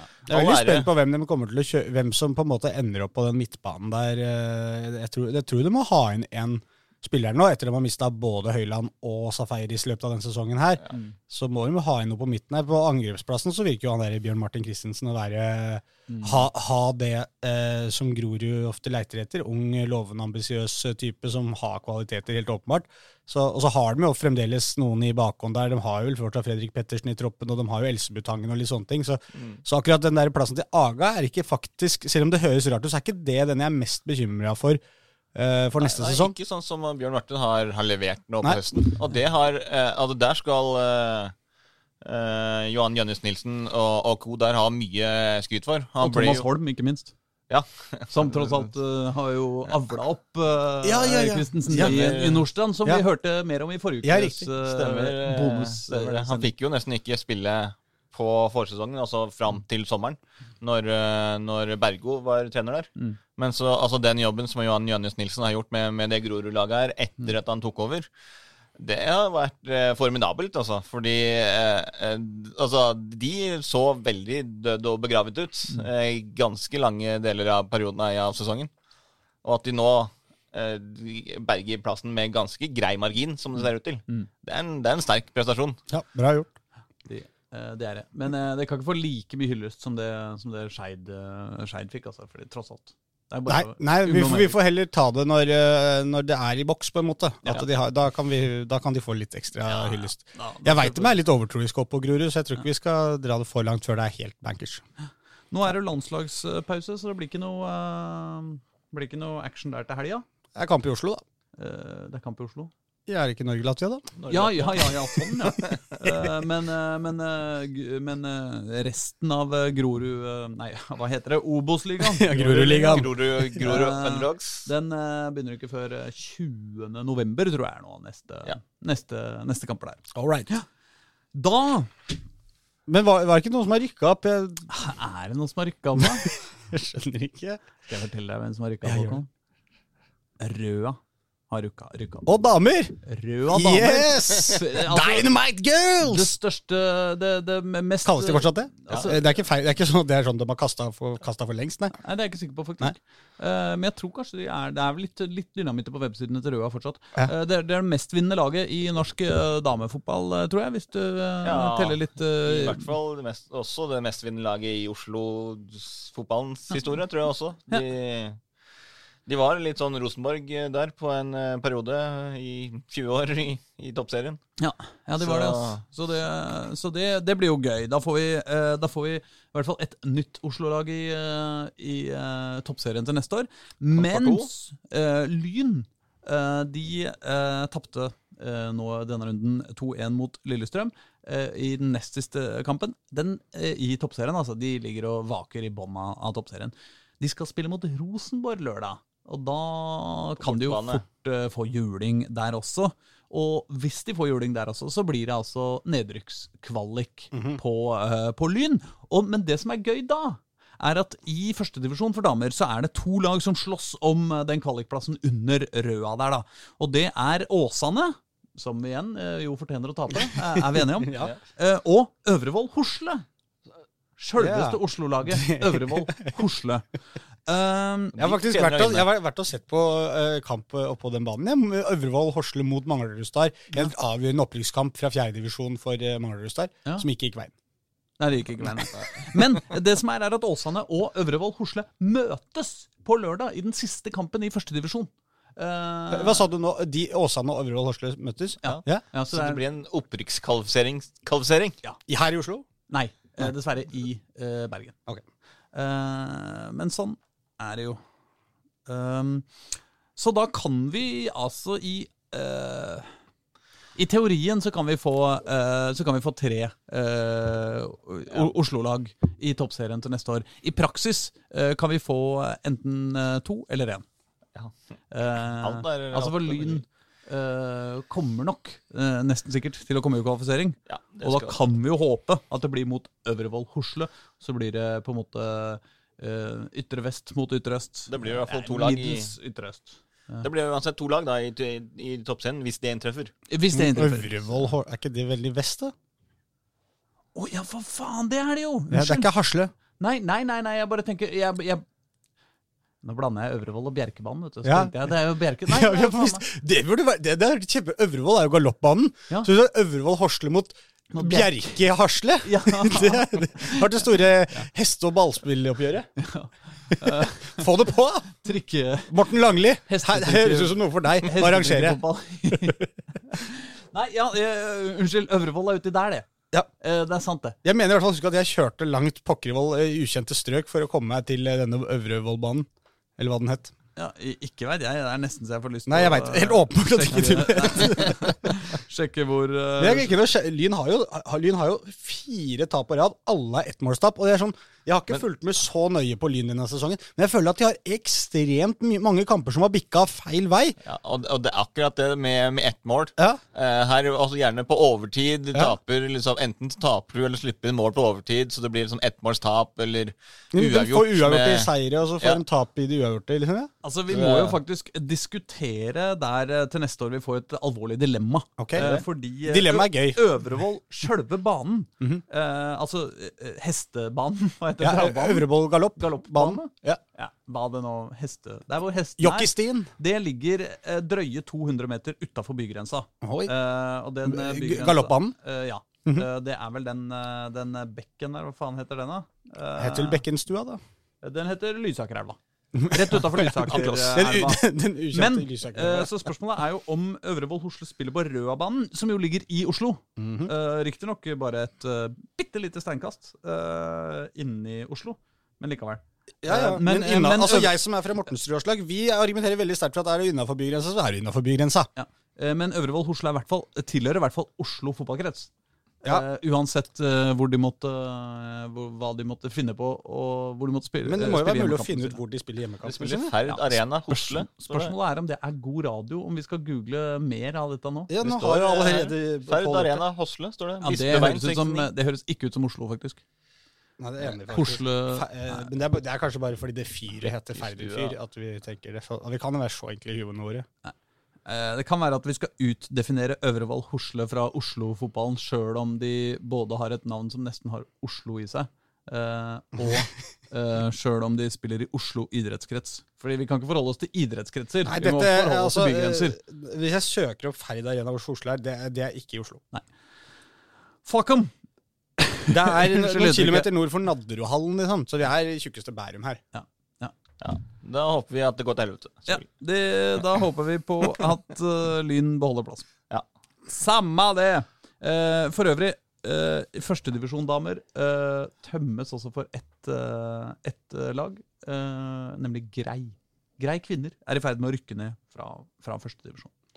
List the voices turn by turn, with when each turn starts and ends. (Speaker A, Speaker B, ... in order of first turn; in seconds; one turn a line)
Speaker A: 0.2-0.9
Speaker B: 0.3-34.8
Speaker C: 10.9-11.1
Speaker C: 16.1-16.5
Speaker A: 29.3-29.6
Speaker B: 35.3-36.3
Speaker A: 35.8-41.3
Speaker A: 42.0-46.5
Speaker C: 46.0-47.1
Speaker A: 47.5-48.7
Speaker C: 48.1-56.5
Speaker B: 50.8-52.0
Speaker A: 51.7-52.4
Speaker B: 54.0-54.5
Speaker A: 54.6-68.1
Speaker A: 68.8-78.7
Speaker A: 79.4-85.8
Speaker B: 85.9-86.5
Speaker C: 87.0-94.5
Speaker B: 93.5-104.8
Speaker C: 100.2-101.2
Speaker C: 105.5-110.2
Speaker B: 110.5-111.2
Speaker C: 111.5-112.7
Speaker B: 113.1-114.1
Speaker A: 114.2-114.9
Speaker C: 114.3-130.6
Speaker A: 115.5-116.0
Speaker B: 122.0-123.1
Speaker A: 122.8-124.7
Speaker B: 130.1-130.5
Speaker C: 131.3-131.9
Speaker B: 132.9-134.7
Speaker C: 134.7-136.3
Speaker B: 136.0-137.6
Speaker C: 137.9-139.3
Speaker B: 138.8-139.2
Speaker C: 140.4-141.0
Speaker C: 141.5-142.3
Speaker B: 142.2-143.0
Speaker C: 143.0-145.3
Speaker B: 143.5-146.3
Speaker C: 146.0-149.2
Speaker B: 148.0-151.9
Speaker C: 152.0-162.9
Speaker A: 161.4-168.4
Speaker A: 169.3-174.4
Speaker C: 174.6-223.2
Speaker A: 175.2-175.8
Speaker A: 183.9-184.5
Speaker A: 200.4-201.0
Speaker B: 207.3-207.6
Speaker B: 220.2-221.3
Speaker C: 224.2-226.8
Speaker B: 224.4-226.3
Speaker C: 227.4-228.3
Speaker A: 228.1-229.1
Speaker B: 228.2-237.5
Speaker C: 238.2-246.5
Speaker B: 246.1-249.0
Speaker C: 248.6-249.6
Speaker A: 248.6-251.8
Speaker B: 252.1-252.7
Speaker C: 252.9-254.9
Speaker C: 255.7-258.0
Speaker C: 258.9-259.5
Speaker C: 260.1-263.1
Speaker C: 263.9-274.0
Speaker C: 275.1-290.4
Speaker A: 275.6-276.8
Speaker A: 280.9-281.6
Speaker A: 288.1-289.3
Speaker A: 290.4-293.3
Speaker C: 293.5-294.4
Speaker B: 293.7-295.9
Speaker C: 297.3-299.3
Speaker B: 298.9-299.7
Speaker C: 300.0-301.8
Speaker C: 303.0-306.4
Speaker B: 304.6-304.9
Speaker B: 305.6-316.1
Speaker C: 311.1-311.8
Speaker C: 312.4-313.9
Speaker C: 316.2-317.6
Speaker B: 317.0-318.4
Speaker C: 318.4-319.2
Speaker B: 319.1-322.8
Speaker C: 319.9-326.3
Speaker C: 326.8-327.6
Speaker B: 327.6-333.7
Speaker C: 333.9-340.2
Speaker B: 335.9-338.6
Speaker B: 339.8-350.8
Speaker A: 350.8-362.4
Speaker B: 360.5-363.7
Speaker C: 363.8-390.2
Speaker A: 364.1-364.6
Speaker B: 368.6-368.9
Speaker A: 368.8-369.0
Speaker B: 369.4-370.2
Speaker B: 374.8-377.0
Speaker B: 379.2-379.9
Speaker B: 383.2-383.5
Speaker B: 384.2-385.3
Speaker B: 389.8-390.8
Speaker C: 391.2-407.8
Speaker B: 392.7-396.1
Speaker A: 393.7-394.2
Speaker B: 400.2-400.5
Speaker B: 406.4-411.9
Speaker C: 411.9-415.5
Speaker C: 416.0-422.2
Speaker B: 421.0-423.3
Speaker A: 422.8-424.9
Speaker C: 423.5-428.2
Speaker B: 428.1-430.0
Speaker A: 428.2-431.9
Speaker C: 430.8-433.2
Speaker B: 434.0-440.6
Speaker C: 434.4-435.7
Speaker A: 437.2-438.1
Speaker C: 441.4-456.4
Speaker B: 454.9-459.6
Speaker C: 461.0-461.5
Speaker C: 462.2-463.7
Speaker B: 462.5-466.4
Speaker C: 466.5-467.1
Speaker A: 467.4-469.4
Speaker C: 469.3-472.9
Speaker C: 473.6-486.5